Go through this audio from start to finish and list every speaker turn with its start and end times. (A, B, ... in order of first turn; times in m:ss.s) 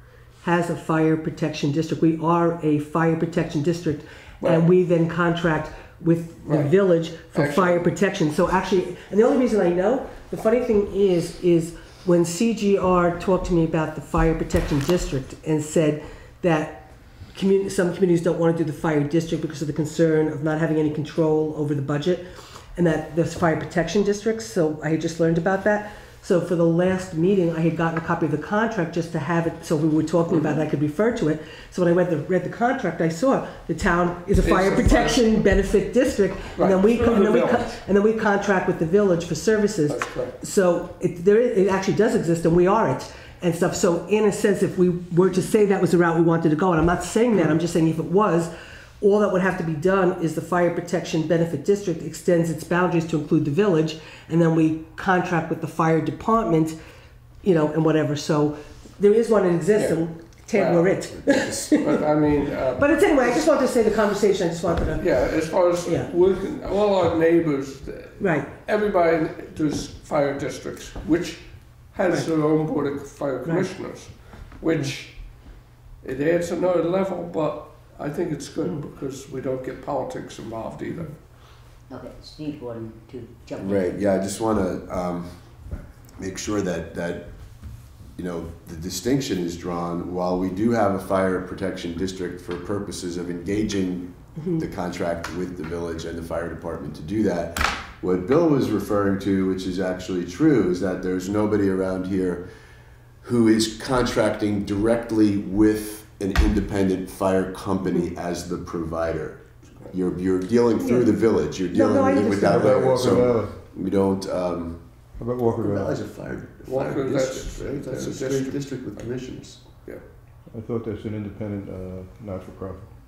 0:00.4-0:56.8 A
0:06.5-0:06.8 B
0:07.3-0:07.9 B
0:30.3-0:30.6 B
0:34.4-0:35.4 B
0:36.6-0:37.8 B
0:39.9-0:40.4 B
0:57.4-1:02.0 A
0:59.8-1:03.4 B
1:01.1-1:01.7 C
1:02.8-1:05.1 A
1:05.0-1:21.1 B
1:05.8-1:06.1 A
1:08.2-1:08.5 A
1:13.4-1:13.7 A
1:21.9-1:24.0 D
1:23.6-1:25.4 C
1:26.2-1:27.3 C
1:28.2-1:42.4 C
1:34.4-1:34.7 A
1:43.2-1:54.8 C
1:49.7-1:50.0 B
1:50.8-1:51.1 A
1:51.7-1:53.1 A
1:52.5-1:53.6 E
1:55.2-1:56.0 E
1:55.4-1:59.6 C
1:56.6-2:00.0 B
2:00.5-2:02.9 E